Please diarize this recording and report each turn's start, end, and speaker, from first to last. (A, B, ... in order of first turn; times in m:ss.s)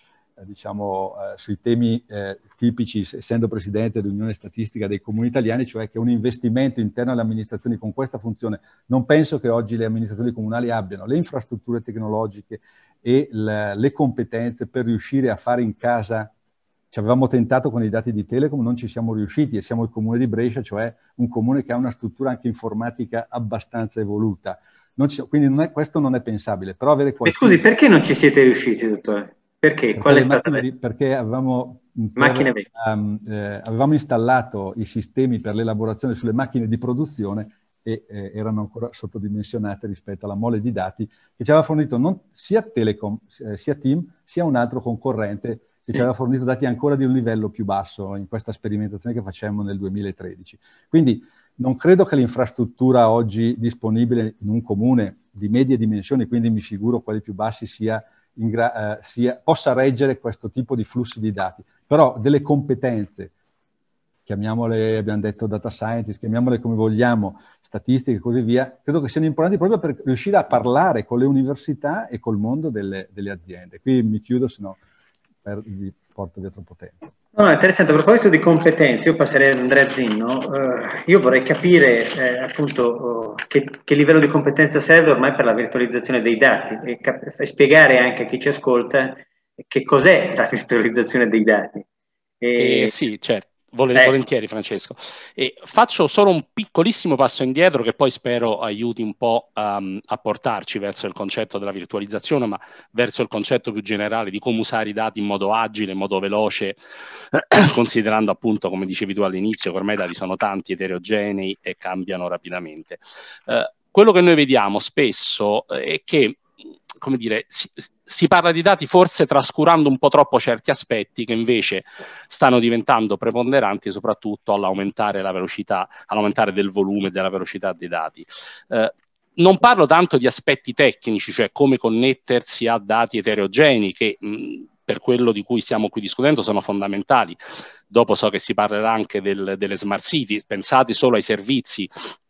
0:00.4-0:16.3 A
0:16.9-0:27.6 A
0:27.2-0:30.6 B
0:30.0-1:03.3 A
0:32.2-0:32.7 B
1:04.2-1:14.8 A
1:15.4-1:17.0 A
1:17.4-1:31.8 B
1:32.4-1:32.9 B
1:32.6-1:46.8 C
1:47.3-1:56.4 C
1:57.0-2:17.4 C
2:17.9-2:22.1 C